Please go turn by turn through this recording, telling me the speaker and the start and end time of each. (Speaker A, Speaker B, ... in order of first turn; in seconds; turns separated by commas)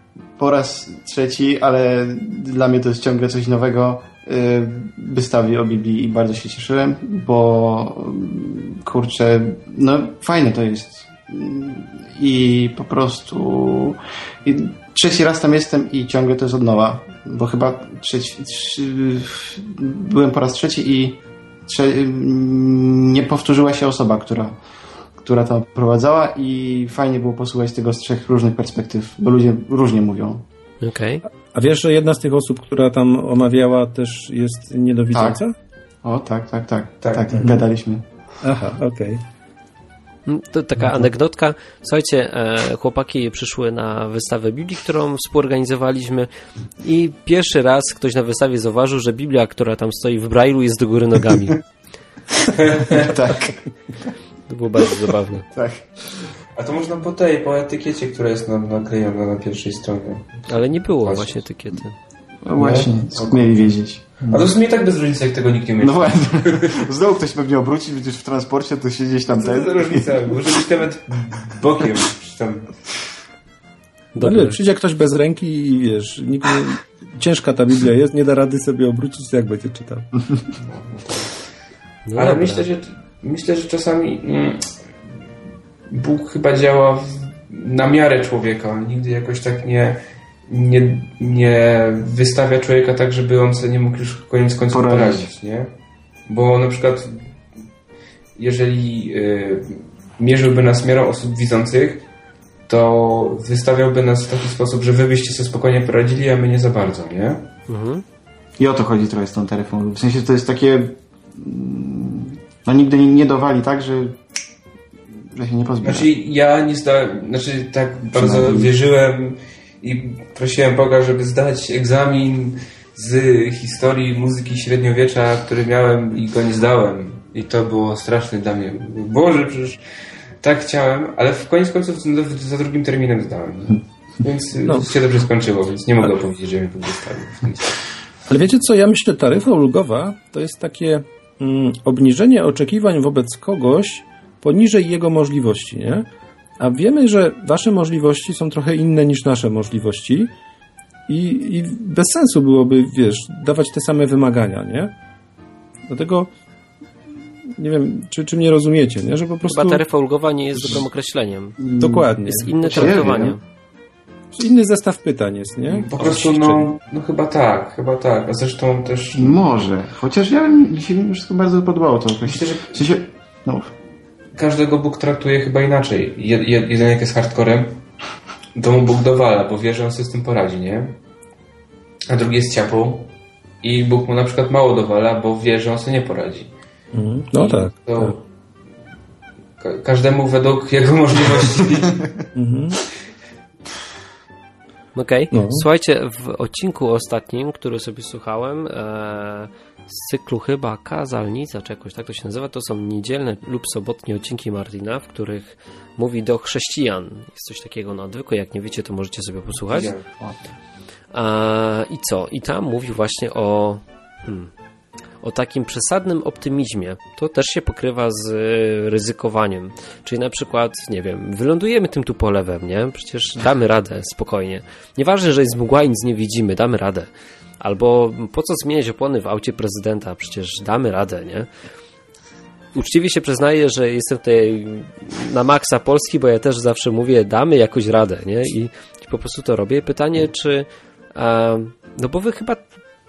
Speaker A: 0.4-24.6, Speaker A: 25.2-30.4, Speaker B: 30.8-31.2, Speaker C: 31.5-35.5, Speaker A: 35.1-35.4, Speaker A: 36.0-38.0, Speaker D: 37.0-37.3, Speaker C: 38.4-39.2, Speaker B: 40.3-46.3, Speaker B: 46.8-51.6, Speaker D: 52.5-53.1, Speaker A: 52.9-54.1, Speaker B: 54.5-55.5, Speaker A: 55.5-55.9, Speaker D: 56.5-61.4, Speaker B: 60.5-62.0, Speaker A: 62.4-64.5, Speaker D: 62.6-63.6, Speaker D: 64.3-66.8, Speaker A: 65.8-70.5, Speaker D: 69.3-72.7, Speaker B: 74.2-74.6, Speaker C: 74.2-80.1, Speaker D: 80.6-81.4, Speaker B: 82.1-82.7, Speaker D: 82.2-84.7, Speaker D: 85.9-95.7, Speaker A: 94.7-95.3, Speaker D: 96.3-97.2, Speaker D: 98.4-102.0, Speaker D: 102.7-107.5, Speaker B: 107.7-108.0, Speaker A: 108.6-114.2, Speaker A: 115.3-116.1, Speaker D: 115.8-129.8, Speaker A: 118.1-118.7, Speaker D: 130.4-137.8, Speaker C: 138.3-146.1, Speaker C: 146.6-150.3, Speaker C: 151.1-154.9, Speaker C: 155.9-156.3, Speaker C: 157.5-159.8, Speaker B: 159.4-161.6, Speaker C: 160.5-160.8, Speaker A: 161.6-162.1, Speaker C: 161.8-163.2, Speaker B: 162.2-163.4, Speaker A: 162.7-163.3, Speaker C: 164.3-166.7, Speaker D: 165.7-169.4, Speaker A: 169.1-173.7, Speaker D: 172.2-172.8, Speaker D: 174.3-177.8, Speaker D: 178.5-181.0, Speaker D: 182.1-183.1, Speaker D: 183.6-186.5, Speaker C: 186.9-188.1, Speaker D: 187.3-188.2, Speaker D: 189.6-192.1, Speaker C: 192.3-192.8, Speaker B: 194.9-209.9, Speaker C: 195.3-195.7, Speaker D: 209.7-210.3, Speaker B: 211.1-214.5, Speaker B: 215.2-227.1, Speaker B: 227.6-231.5, Speaker B: 232.7-242.6